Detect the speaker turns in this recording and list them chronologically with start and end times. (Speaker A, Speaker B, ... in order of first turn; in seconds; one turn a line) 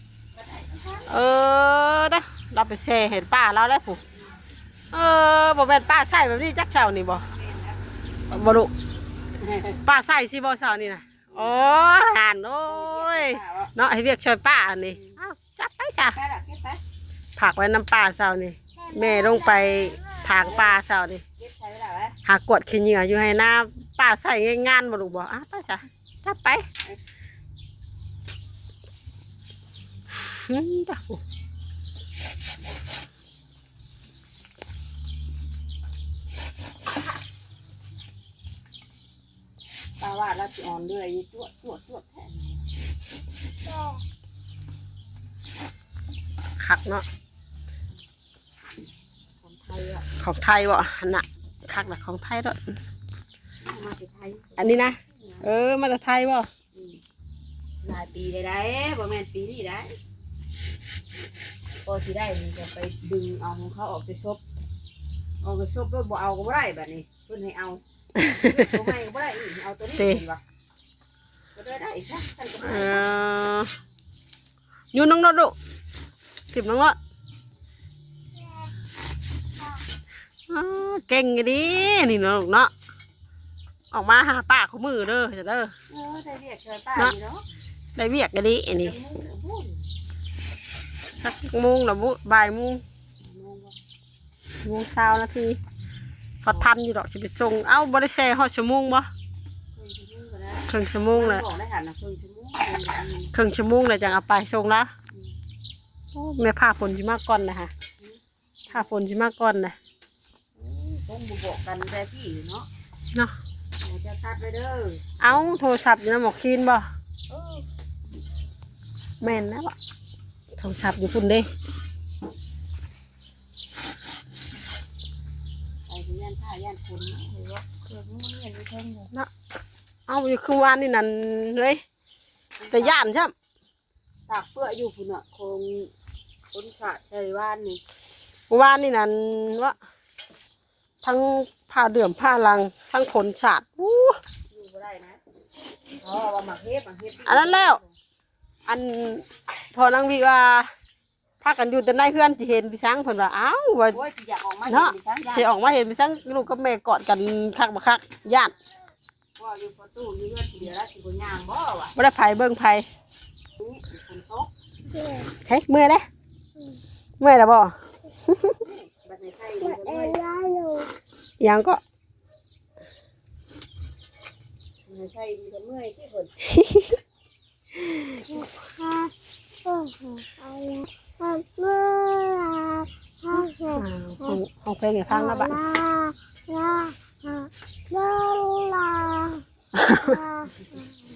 Speaker A: 0.4-1.1
Speaker B: 1.1-4.0
Speaker B: 4.9-7.2
Speaker A: 7.3-7.8
Speaker B: 8.3-8.7
Speaker A: 9.4-9.8
Speaker B: 9.8-16.2
Speaker A: 12.7-13.7
Speaker A: 14.9-15.2
Speaker A: 16.1-16.8
Speaker B: 17.4-21.2
Speaker C: 18.8-20.4
Speaker A: 20.4-20.7
Speaker A: 21.4-22.2
Speaker B: 22.2-26.6
Speaker B: 30.2-31.2
Speaker A: 40.0-42.6
Speaker B: 46.6-47.0
Speaker A: 49.4-50.0
Speaker B: 50.1-52.6
Speaker A: 53.6-54.9
Speaker B: 54.6-56.5
Speaker A: 56.7-57.0
Speaker A: 57.8-60.0
Speaker A: 61.8-64.4
Speaker A: 65.4-67.8
Speaker B: 68.2-68.7
Speaker A: 68.4-70.4
Speaker B: 70.0-70.2
Speaker A: 71.5-73.1
Speaker B: 72.6-73.7
Speaker B: 74.9-75.5
Speaker B: 76.5-77.0
Speaker B: 80.5-82.7
Speaker B: 83.9-85.7
Speaker A: 85.9-87.4
Speaker B: 88.0-89.0
Speaker A: 88.8-89.8
Speaker B: 91.2-92.8
Speaker A: 93.2-93.8
Speaker B: 94.6-95.6
Speaker B: 96.4-99.1
Speaker A: 99.7-103.3
Speaker B: 100.7-101.4
Speaker B: 103.3-104.9
Speaker B: 106.1-107.7
Speaker B: 108.7-109.8
Speaker A: 110.6-112.7
Speaker A: 113.8-115.5
Speaker B: 115.2-116.8
Speaker A: 117.3-117.7
Speaker B: 119.2-119.7
Speaker B: 120.6-121.5
Speaker A: 125.9-129.1
Speaker B: 130.1-131.8
Speaker A: 132.6-133.0
Speaker B: 132.7-133.3
Speaker A: 134.3-135.9
Speaker A: 136.5-137.8
Speaker B: 138.5-139.8
Speaker B: 141.0-144.2
Speaker A: 144.5-145.2
Speaker A: 146.0-147.9
Speaker B: 147.2-147.8
Speaker B: 148.7-150.7
Speaker B: 151.4-154.0
Speaker A: 153.9-155.6
Speaker B: 154.7-158.5
Speaker A: 159.4-161.9
Speaker B: 161.9-162.8
Speaker A: 163.6-164.5
Speaker C: 164.9-165.3
Speaker B: 165.4-166.1
Speaker B: 167.2-167.7
Speaker B: 168.3-168.6
Speaker A: 168.6-170.2
Speaker C: 169.6-170.9
Speaker B: 171.4-171.8
Speaker A: 174.9-176.3
Speaker B: 176.4-177.0
Speaker C: 178.3-179.1
Speaker C: 179.6-184.4
Speaker B: 183.4-185.6
Speaker C: 185.1-189.4
Speaker B: 189.7-190.2
Speaker C: 190.0-190.5